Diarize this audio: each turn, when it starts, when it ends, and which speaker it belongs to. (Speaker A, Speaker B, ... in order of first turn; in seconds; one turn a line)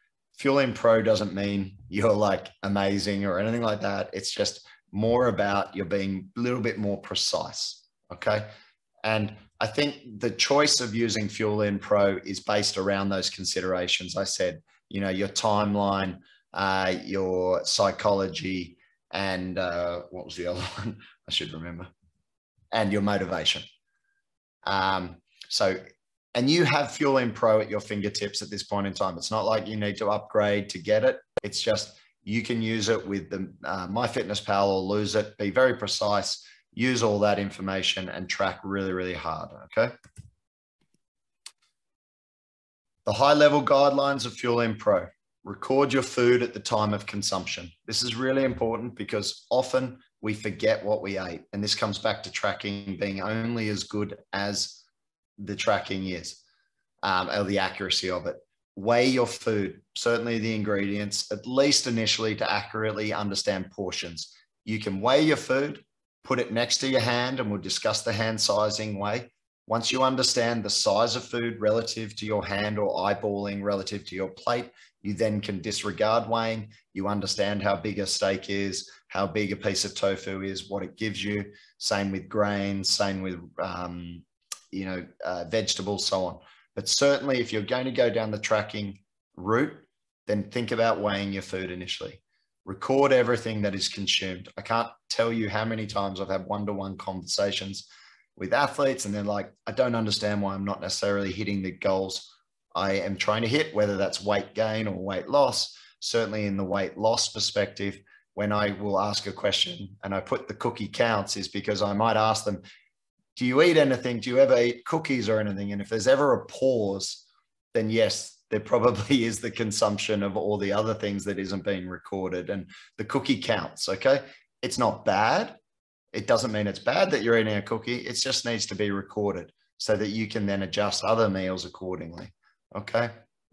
Speaker A: 0.4-8.5
Speaker A: 9.0-21.9
Speaker A: 22.7-23.6
Speaker A: 24.6-25.8
Speaker A: 26.3-39.9
Speaker A: 43.0-54.8
Speaker A: 55.4-56.4
Speaker A: 57.0-112.6
Speaker A: 113.3-117.2
Speaker A: 117.7-125.6
Speaker A: 126.1-133.1